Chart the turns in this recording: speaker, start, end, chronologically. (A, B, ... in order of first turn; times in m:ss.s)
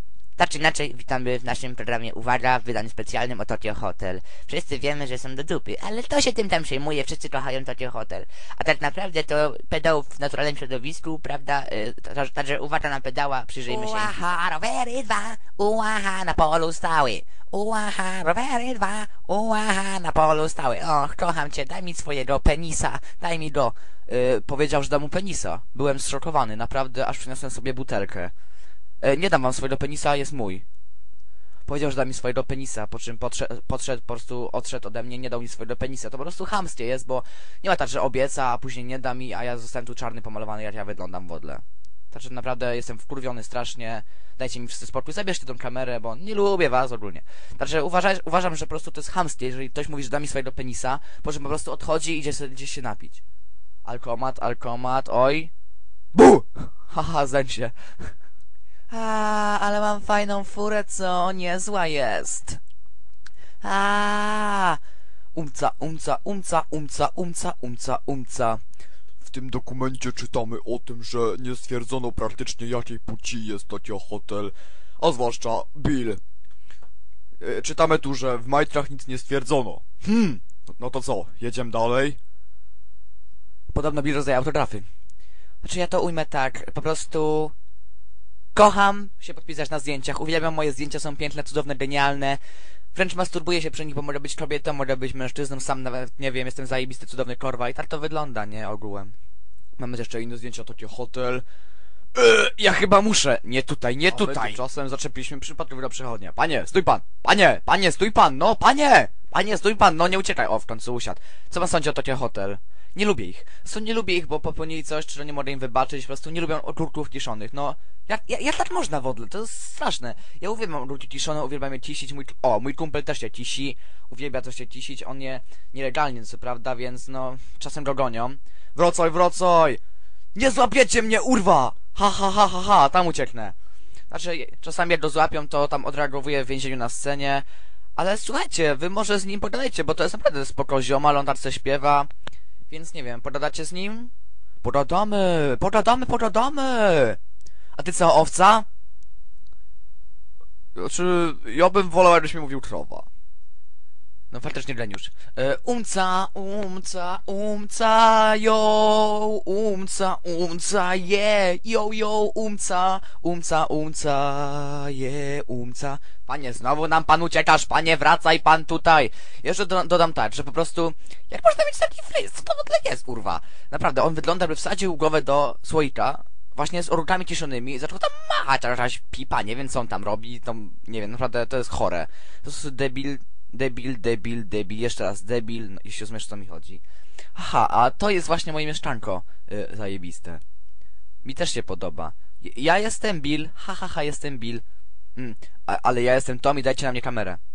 0:00.4-0:23.0 A
0:13.5-0:14.4 B
0:20.9-0:28.3 B
0:29.0-0:30.6 B
0:31.6-0:53.2 B
0:53.8-0:55.5 B
0:56.1-0:58.1 B
0:58.9-1:02.6 B
1:03.6-1:04.8 B
1:05.3-1:08.6 B
1:09.2-1:16.2 C
1:09.2-1:10.1 B
1:10.9-1:11.3 B
1:15.0-1:16.1 B
1:17.4-1:19.8 C
1:17.4-1:22.1 B
1:20.6-1:22.2 C
1:23.7-1:24.8 B
1:25.6-1:27.5 B
1:28.6-1:32.4 B
1:32.9-1:39.1 B
1:39.8-1:41.4 B
1:42.1-2:09.8 B
2:10.3-2:13.6 B
2:14.1-2:22.1 B
2:22.7-2:27.2 B
2:27.8-2:28.7 B
2:30.8-2:33.1 B
2:34.3-3:06.8 B
3:07.3-3:10.4 B
3:11.2-3:14.6 B
3:15.2-3:17.4 B